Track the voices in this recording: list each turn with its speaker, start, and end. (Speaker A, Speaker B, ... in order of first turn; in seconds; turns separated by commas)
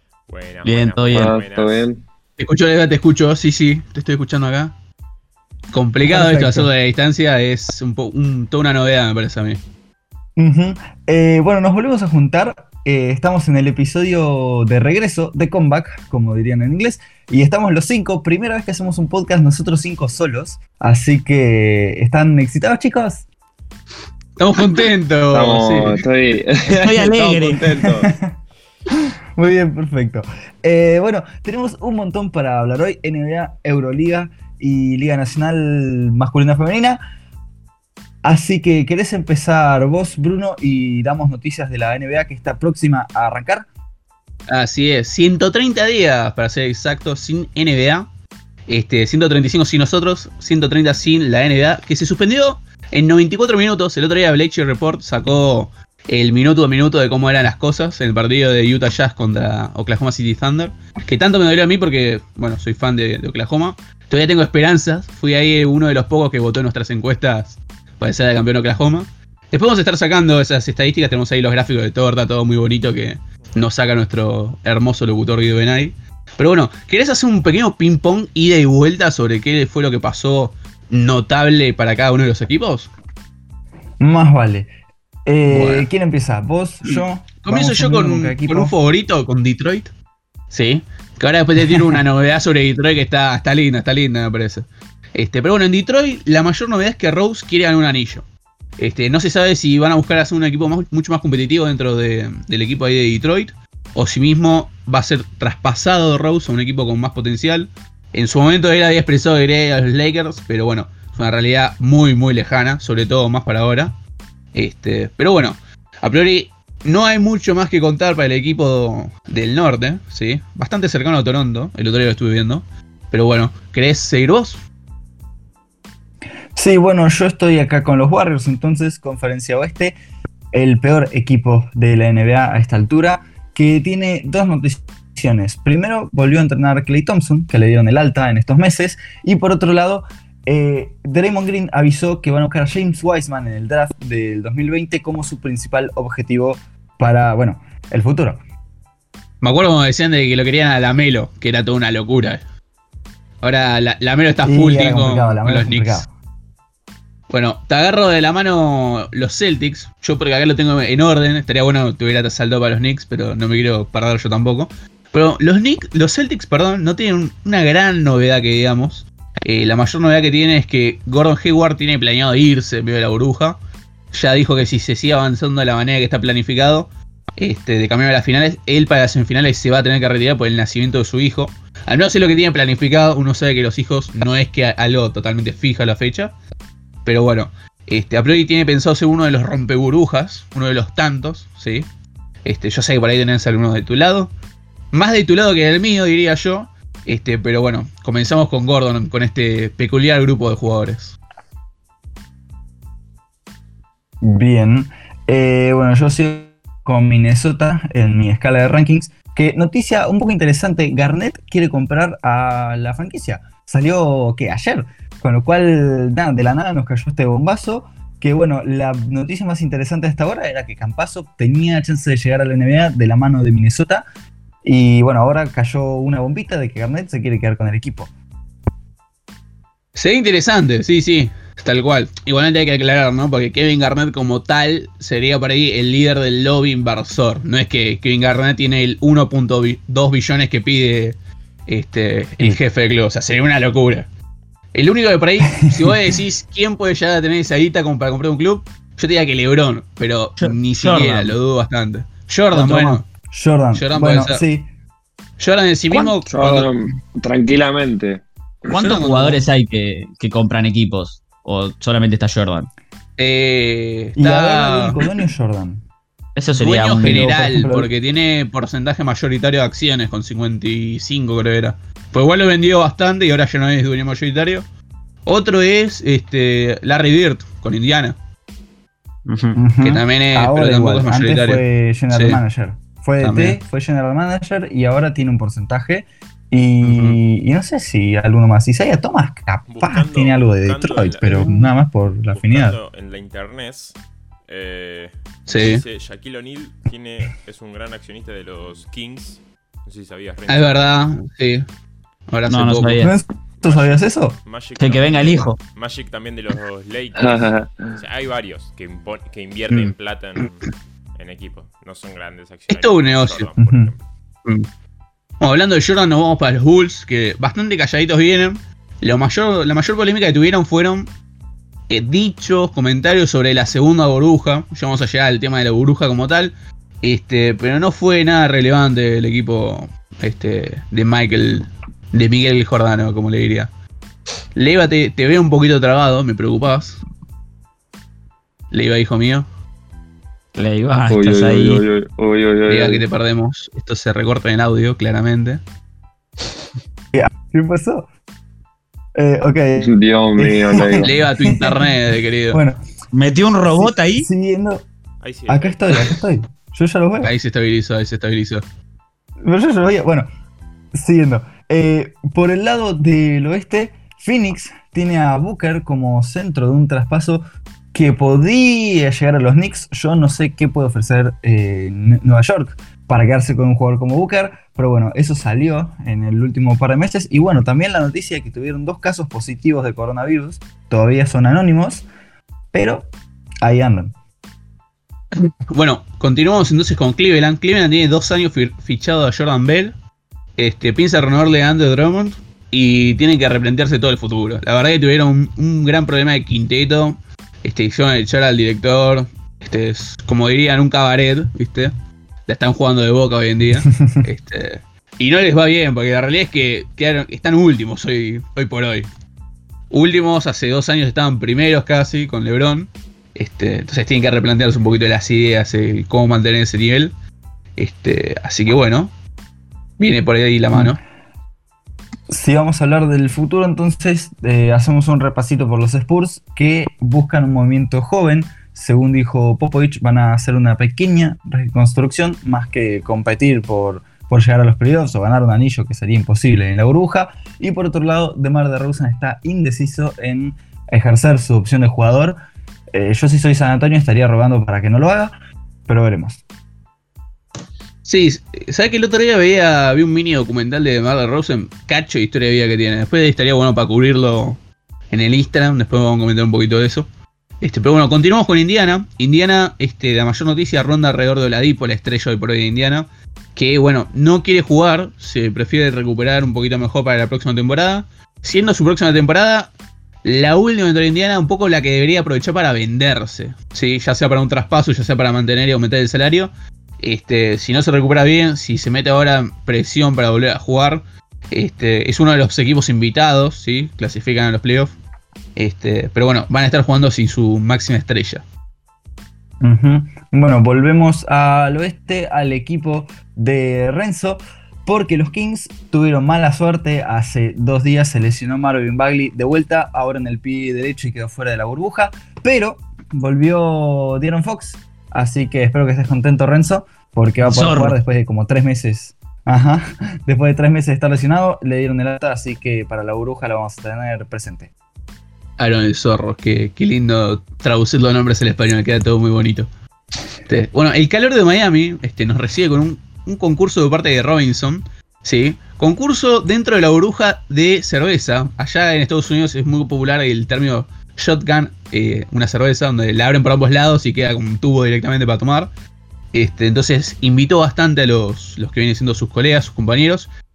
Speaker A: 0.3-1.9, Speaker B: 0.6-1.3, Speaker C: 1.1-2.0, Speaker D: 2.4-4.7, Speaker D: 5.7-9.6, Speaker E: 6.0-6.7, Speaker E: 10.4-23.2, Speaker D: 24.4-26.0, Speaker C: 25.3-28.1, Speaker B: 26.7-27.6, Speaker E: 29.0-37.0, Speaker E: 38.2-43.6, Speaker D: 44.5-48.1, Speaker D: 48.7-82.9, Speaker E: 84.0-84.7, Speaker E: 85.2-88.7, Speaker D: 85.5-85.9, Speaker D: 86.8-89.9, Speaker D: 90.5-98.2, Speaker D: 98.8-114.0, Speaker D: 114.5-124.6, Speaker E: 126.5-129.9, Speaker E: 130.5-148.4, Speaker D: 149.4-152.4, Speaker D: 153.4-156.0, Speaker E: 154.4-156.1, Speaker D: 157.3-173.6, Speaker D: 174.1-186.3, Speaker D: 187.0-191.9, Speaker D: 192.4-194.3, Speaker D: 194.9-201.2, Speaker E: 204.2-224.0, Speaker E: 224.6-228.1, Speaker D: 229.9-244.1, Speaker D: 244.7-253.1, Speaker E: 245.6-246.1, Speaker B: 250.4-251.3, Speaker B: 252.5-253.0, Speaker E: 253.3-254.7, Speaker D: 253.7-254.4, Speaker D: 255.4-256.7, Speaker C: 256.3-258.7, Speaker B: 258.7-262.7, Speaker D: 258.7-259.4, Speaker D: 263.2-265.0, Speaker E: 264.2-265.8, Speaker B: 266.4-267.5, Speaker D: 266.5-274.6, Speaker E: 267.0-267.9, Speaker D: 275.2-278.1, Speaker B: 279.3-279.6, Speaker E: 279.6-292.8, Speaker D: 279.8-282.4, Speaker D: 283.2-283.6, Speaker D: 286.8-287.2, Speaker A: 289.7-291.7, Speaker A: 292.2-293.9, Speaker A: 294.5-300.9, Speaker D: 295.5-295.8, Speaker D: 300.5-301.6, Speaker D: 302.3-303.0, Speaker B: 302.5-303.1, Speaker E: 303.0-304.4, Speaker A: 303.6-314.0, Speaker B: 304.8-305.6, Speaker C: 307.2-308.0, Speaker D: 309.7-309.9, Speaker D: 312.7-313.5, Speaker E: 313.6-313.9, Speaker D: 315.4-321.1, Speaker D: 321.9-333.7, Speaker D: 334.6-337.0, Speaker D: 338.7-339.5, Speaker B: 340.6-341.8, Speaker C: 341.1-343.0, Speaker D: 342.7-345.6, Speaker E: 347.1-348.1, Speaker E: 349.1-351.9, Speaker C: 349.8-351.1, Speaker D: 351.0-352.6, Speaker E: 352.5-352.8, Speaker B: 353.1-354.3, Speaker E: 353.6-354.9, Speaker A: 355.2-356.1, Speaker E: 355.5-357.3, Speaker D: 357.2-358.6, Speaker E: 359.4-360.3, Speaker E: 360.9-382.0, Speaker E: 382.7-383.1, Speaker E: 383.6-384.1, Speaker D: 385.7-389.9, Speaker D: 390.6-401.9, Speaker D: 402.5-409.1, Speaker E: 403.9-404.2, Speaker D: 409.9-417.1, Speaker D: 417.8-419.1, Speaker D: 420.0-421.0, Speaker E: 422.3-442.4, Speaker E: 442.9-445.3, Speaker E: 445.9-446.4, Speaker D: 448.0-454.6, Speaker D: 455.1-457.1, Speaker D: 457.6-469.7, Speaker D: 470.2-484.9, Speaker D: 485.6-488.4, Speaker E: 489.6-514.7, Speaker B: 507.4-508.0, Speaker D: 515.6-519.7, Speaker D: 520.5-535.7, Speaker D: 536.3-540.3